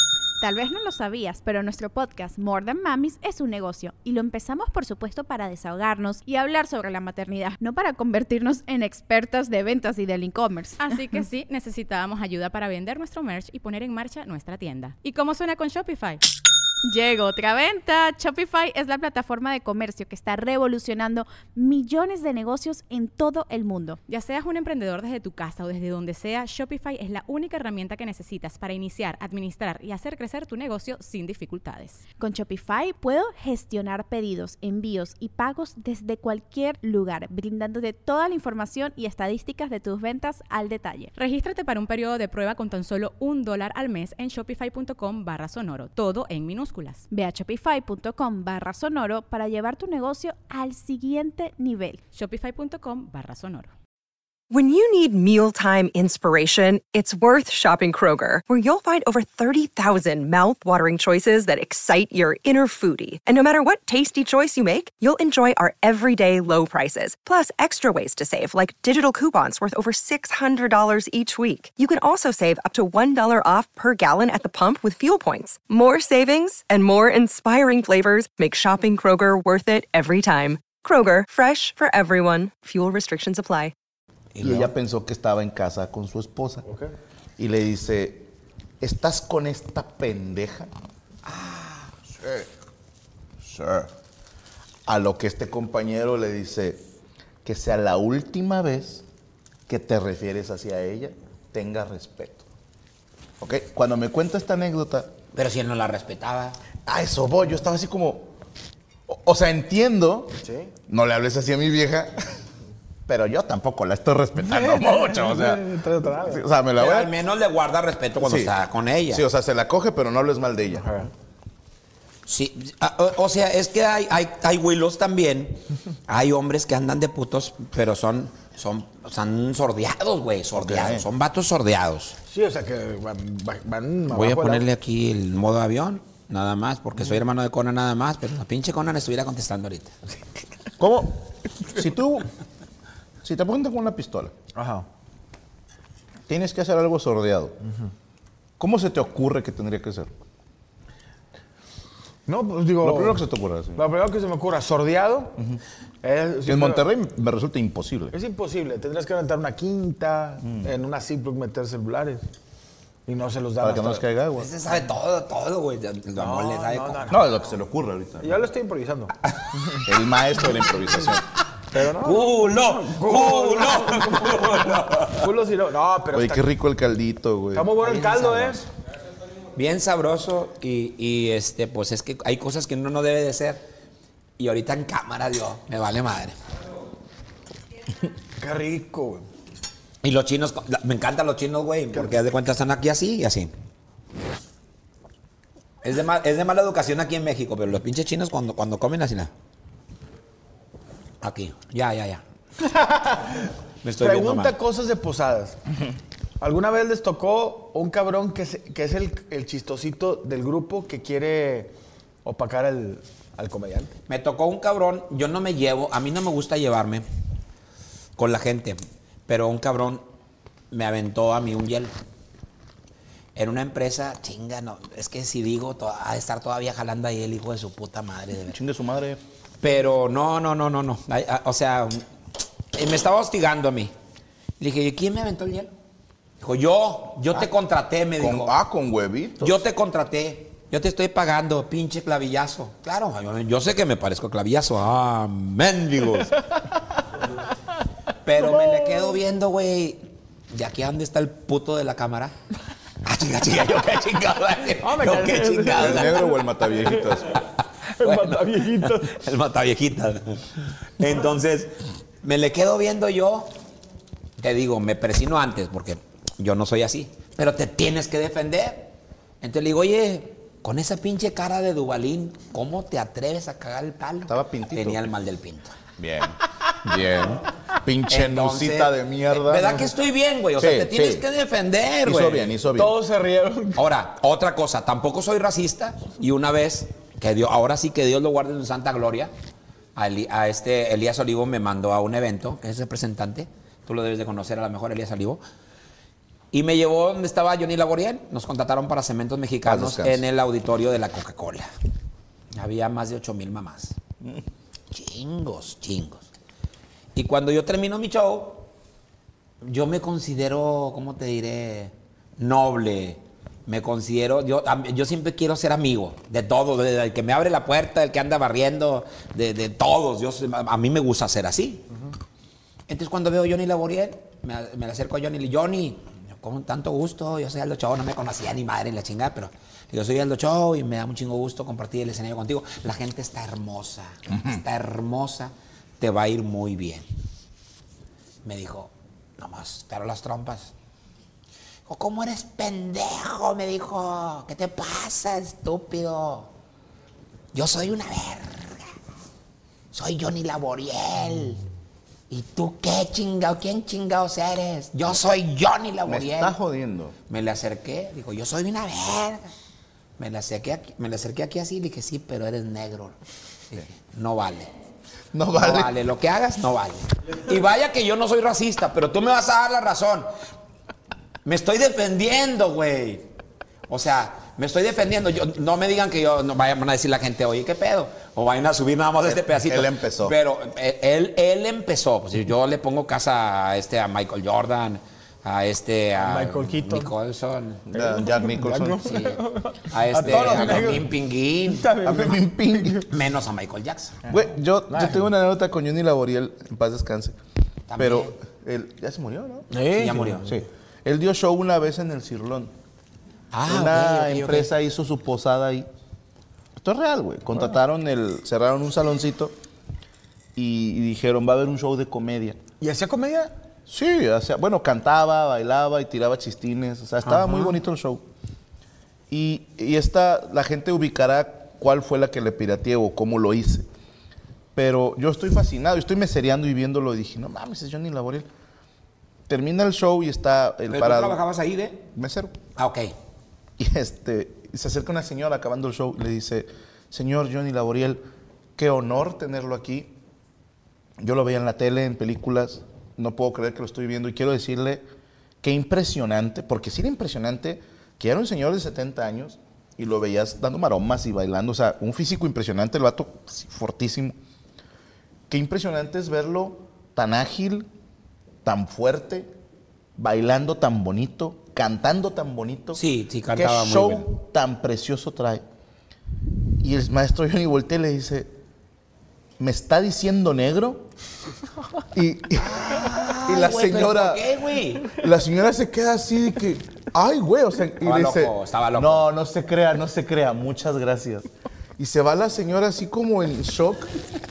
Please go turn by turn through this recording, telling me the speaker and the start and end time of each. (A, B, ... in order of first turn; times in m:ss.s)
0:00.4-0:10.9 A
0:10.8-0:16.2 B
0:16.8-0:24.0 A
0:24.1-0:32.0 B
0:32.2-0:41.1 A
0:41.1-0:47.0 B
0:47.1-0:52.0 A
0:52.1-0:53.7 B
0:54.5-1:23.7 C
1:24.3-1:24.7 D
1:24.4-1:26.6 E
1:26.6-1:26.9 F
1:27.4-1:28.3 E
1:28.8-1:30.7 E
1:31.2-1:31.9 D
1:33.4-1:33.9 E
1:34.9-1:36.8 E
1:37.4-1:39.0 E
1:39.7-1:42.4 E
1:43.4-1:45.1 E
1:45.3-1:46.6 D
1:46.8-1:48.3 E
1:49.1-1:52.2 E
1:50.4-1:50.7 F
1:53.1-1:57.2 E
1:54.5-1:56.4 F
1:56.8-1:59.2 D
1:58.2-1:58.5 E
1:59.1-2:01.1 E
2:02.3-2:12.2 D
2:10.5-2:11.1 E
2:12.3-2:14.7 F
2:14.1-2:19.9 D
2:20.8-2:22.3 E
2:23.2-2:24.4 E
2:24.5-2:24.8 F
2:26.3-2:27.6 E
2:28.6-2:30.1 E
2:32.2-2:33.2 F
2:32.8-2:33.8 E
2:33.8-2:35.4 F
2:36.0-2:36.8 F
2:36.4-2:38.1 E
2:38.1-2:42.2 F
2:40.4-2:40.7 E
2:43.0-2:44.0 F
2:43.6-2:44.5 E
2:44.4-2:47.2 D
2:46.2-2:47.2 F
2:47.1-2:48.4 E
2:48.2-2:49.1 F
2:49.8-2:51.2 E
2:51.7-2:56.4 F
2:51.7-2:55.3 D
2:56.1-2:57.7 E
2:57.5-2:58.6 F
2:57.8-2:58.7 D
2:59.5-3:03.6 D
3:04.4-3:06.4 D
3:08.4-3:09.3 F
3:10.0-3:13.5 D
3:15.8-3:19.3 D
3:21.2-3:22.2 D
3:22.6-3:25.6 F
3:23.8-3:24.6 D
3:26.4-3:33.9 F
3:34.1-3:37.0 D
3:38.2-3:40.0 D
3:40.7-3:41.9 D
3:43.4-3:48.6 D
3:48.5-3:49.2 E
3:49.6-3:52.0 D
3:52.7-3:53.9 D
3:54.6-3:55.7 D
3:56.4-3:58.5 D
3:58.2-3:59.6 E
3:59.4-4:06.4 D
4:08.2-4:12.3 D
4:08.4-4:08.9 F
4:13.0-4:16.3 D
4:14.8-4:16.4 F
4:15.8-4:17.4 E
4:17.4-4:23.5 D
4:18.0-4:19.2 F
4:24.4-4:35.8 D
4:34.3-4:35.0 E
4:36.0-4:39.9 E
4:38.1-4:42.5 D
4:40.6-4:41.2 E
4:42.0-4:43.0 E
4:42.7-4:43.8 F
4:43.7-4:49.3 D
4:50.0-4:55.4 D
4:56.5-5:01.7 D
4:59.6-5:00.2 E
5:02.5-5:04.0 D
5:04.9-5:06.3 D
5:07.1-5:08.7 D
5:09.6-5:21.9 D
5:22.9-5:37.0 D
5:38.4-5:40.7 D
5:41.9-5:46.5 D
5:47.5-5:48.9 D
5:49.9-5:51.6 D
5:52.3-5:56.5 D
5:56.0-5:57.2 E
5:57.3-5:59.5 D
6:00.2-6:03.2 D
6:03.7-6:04.7 D
6:05.3-6:05.9 E
6:05.5-6:10.3 D
6:11.4-6:13.3 D
6:13.9-6:27.8 D
6:19.2-6:20.3 E
6:26.2-6:27.1 F
6:27.9-6:29.1 E
6:27.9-6:31.1 F
6:29.0-6:31.9 D
6:30.2-6:31.0 E
6:31.6-6:33.0 F
6:32.0-6:33.0 E
6:33.1-6:34.2 D
6:34.3-6:37.4 E
6:34.9-6:35.3 F
6:37.9-6:38.3 D
6:38.0-6:39.7 E
6:39.7-6:40.5 F
6:39.9-6:40.5 D
6:40.4-6:42.7 E
6:43.5-6:44.7 D
6:43.7-6:45.9 E
6:46.8-6:49.5 E
6:50.5-6:52.6 E
6:52.8-6:53.5 F
6:53.9-6:58.2 E
6:57.3-6:57.7 F
6:59.3-7:03.9 E
7:04.7-7:08.5 E
7:09.5-7:11.4 E
7:10.9-7:12.0 D
7:12.1-7:12.6 E
7:12.8-7:13.1 D
7:13.8-7:18.2 E
7:18.8-7:20.1 E
7:21.2-7:25.0 E
7:25.6-7:34.4 E
7:35.5-7:37.9 E
7:38.6-7:39.5 E
7:40.2-7:43.0 E
7:42.9-7:44.2 D
7:43.5-7:45.6 E
7:46.8-7:48.5 E
7:49.6-7:51.0 E
7:52.1-7:54.5 E
7:52.6-7:55.2 D
7:55.0-8:04.1 E
7:58.0-7:59.3 D